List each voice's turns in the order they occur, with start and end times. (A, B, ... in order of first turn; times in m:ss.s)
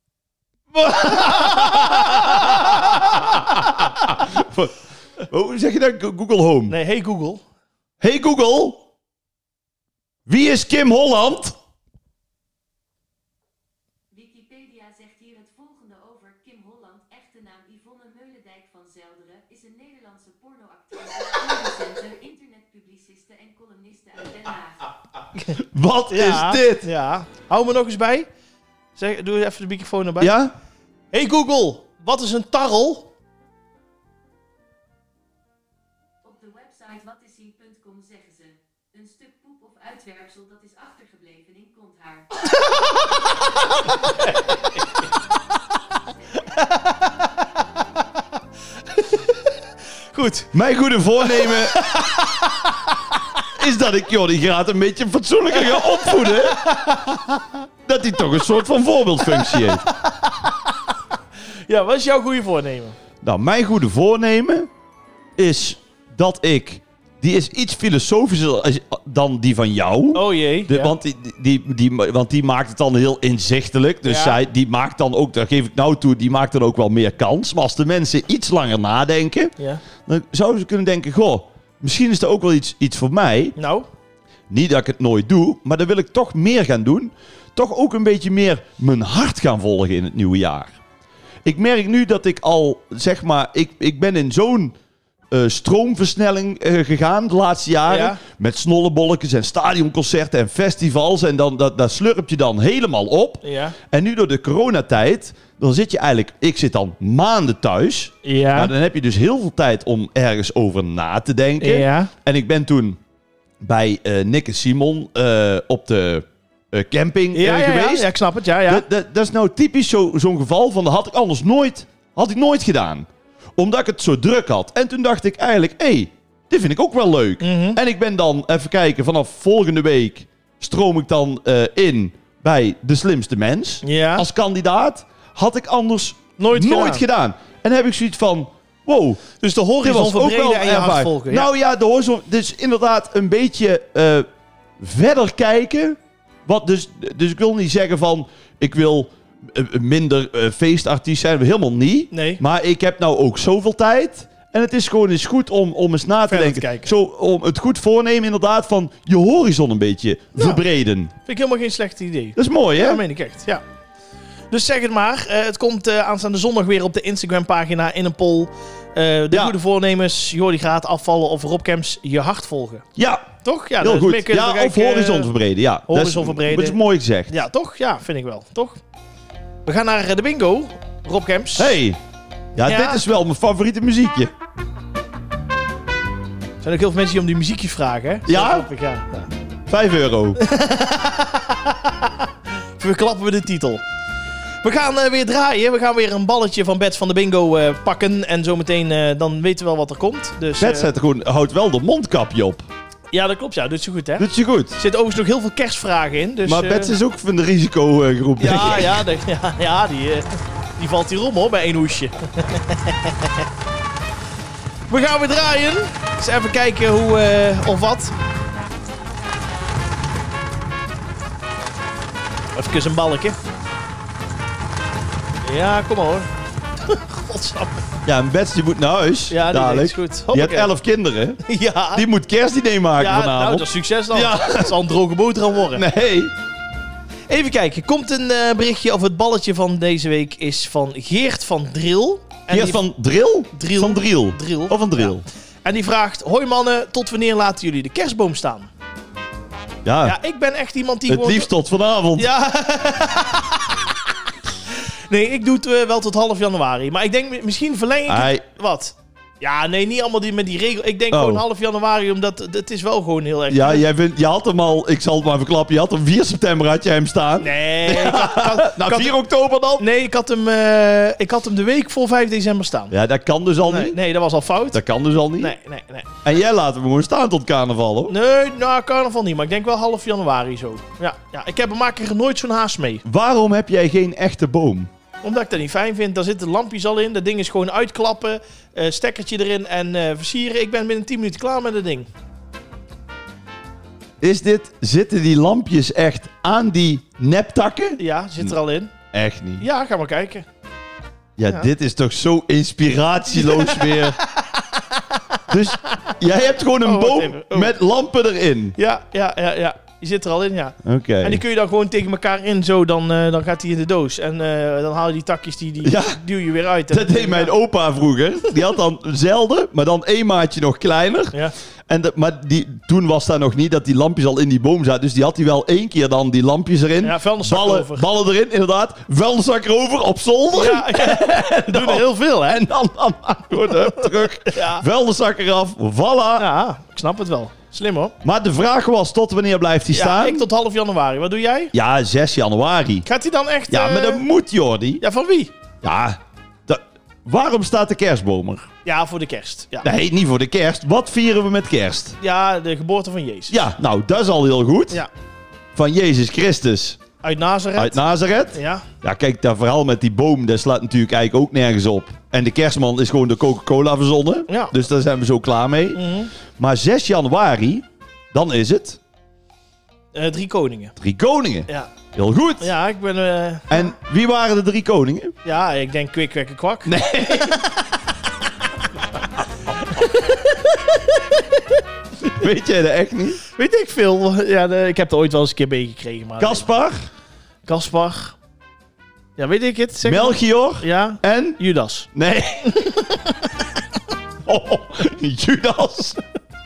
0:00.8-0:03.2 A
0:01.0-0:04.7 B
0:05.3-0:06.8 B
0:06.7-0:07.4 A
0:08.0-0:08.8 B
0:10.3-0:11.6 B
0:14.1-0:24.9 C
0:25.5-0:26.8 B
0:26.1-0:28.3 A
0:29.0-0:30.3 A
0:30.2-0:30.5 B
0:31.1-0:33.1 A
0:36.2-0:42.5 C
0:42.5-0:43.1 A
0:44.0-0:44.4 A
0:46.4-0:47.2 A
0:48.9-0:49.3 A
0:50.1-0:50.5 A
0:50.5-0:51.9 B
0:51.2-0:52.9 A
0:53.5-0:56.7 B
0:55.6-0:57.4 A
0:57.8-0:59.8 B
0:59.3-1:00.9 A
1:01.7-1:03.0 A
1:03.2-1:04.7 B
1:05.4-1:19.5 B
1:10.1-1:10.9 A
1:14.1-1:14.4 A
1:19.6-1:19.8 A
1:20.1-1:23.6 B
1:23.6-1:23.9 A
1:24.5-1:30.7 B
1:31.4-1:34.8 B
1:35.3-1:53.0 B
1:37.9-1:38.2 A
1:43.4-1:43.8 A
1:48.2-1:48.7 A
1:51.6-1:52.1 A
1:53.6-1:58.1 B
1:57.3-1:58.8 A
1:58.7-2:19.2 B
2:07.4-2:07.8 A
2:13.8-2:14.3 A
2:16.4-2:17.0 A
2:19.4-2:21.5 A
2:19.8-2:24.3 B
2:24.8-2:41.1 B
2:32.1-2:32.4 A
2:36.3-2:36.9 A
2:40.4-2:40.6 A
2:41.3-2:43.6 A
2:42.4-2:43.0 B
2:44.5-2:52.8 A
2:53.0-2:57.3 B
2:53.4-2:55.3 A
2:55.9-2:56.8 A
2:57.3-2:58.8 A
2:59.7-3:01.8 A
3:01.6-3:02.0 B
3:02.6-3:03.0 A
3:02.6-3:04.3 B
3:06.6-3:09.3 A
3:08.3-3:08.7 B
3:09.7-3:10.4 B
3:10.4-3:13.8 A
3:14.6-3:20.9 A
3:20.6-3:22.7 B
3:23.1-3:27.0 A
3:24.2-3:24.8 B
3:26.4-3:29.0 B
3:28.4-3:33.4 A
3:34.9-3:38.1 A
3:42.6-3:43.4 A
3:45.4-3:46.3 A
3:46.8-3:47.8 A
3:48.1-3:51.4 B
3:49.3-3:50.7 A
3:51.4-3:52.0 A
3:51.9-3:54.8 B
3:53.0-3:55.8 A
3:55.7-3:56.3 B
3:57.3-4:02.8 A
4:02.5-4:05.2 B
4:03.5-4:08.7 A
4:09.8-4:10.2 B
4:10.0-4:11.5 A
4:11.1-4:12.3 B
4:12.2-4:14.0 A
4:14.7-4:23.8 A
4:18.1-4:18.4 B
4:21.1-4:21.4 B
4:23.5-4:29.8 B
4:27.4-4:29.2 A
4:29.8-4:32.9 A
4:32.9-4:34.0 B
4:33.7-4:34.8 A
4:34.7-4:35.6 B
4:35.4-4:36.1 A
4:36.2-4:38.1 B
4:38.1-4:43.0 A
4:43.0-4:44.9 B
4:45.2-4:52.1 A
4:54.2-4:58.6 B
4:58.0-4:58.9 A
4:59.1-4:59.6 B
4:59.6-5:00.5 A
5:01.4-5:04.2 B
5:03.4-5:05.4 A
5:05.5-5:08.8 B
5:06.8-5:07.8 A
5:08.8-5:17.6 A
5:10.8-5:11.4 B
5:15.8-5:16.2 B
5:16.9-5:21.4 B
5:21.9-5:36.5 B
5:27.0-5:28.1 A
5:30.5-5:32.6 A
5:34.0-5:34.8 A
5:36.4-5:38.1 A
5:38.2-5:40.5 B
5:39.9-5:41.7 A
5:41.7-5:43.1 B
5:43.0-5:44.2 A
5:43.7-5:45.0 B
5:45.0-5:45.5 A
5:45.8-5:48.7 B
5:48.8-5:49.9 A
5:49.8-5:52.2 B
5:52.2-5:53.6 A
5:53.5-5:55.0 B
5:55.8-5:57.0 B
5:57.2-5:58.0 A
5:57.8-6:06.0 B
5:58.5-5:58.8 A
6:04.5-6:04.7 A
6:05.9-6:06.3 A
6:06.6-6:09.0 B
6:10.1-6:11.0 A
6:11.0-6:12.7 B
6:12.6-6:13.9 A
6:13.7-6:15.4 B
6:15.4-6:17.7 A
6:16.9-6:17.7 B
6:19.8-6:21.8 A
6:22.2-6:23.4 B
6:23.5-6:26.7 A
6:26.4-6:27.0 B
6:27.7-6:28.4 A
6:29.4-6:32.1 A
6:30.0-6:31.6 B
6:32.1-6:32.8 B
6:32.7-6:33.5 A
6:34.4-6:36.2 B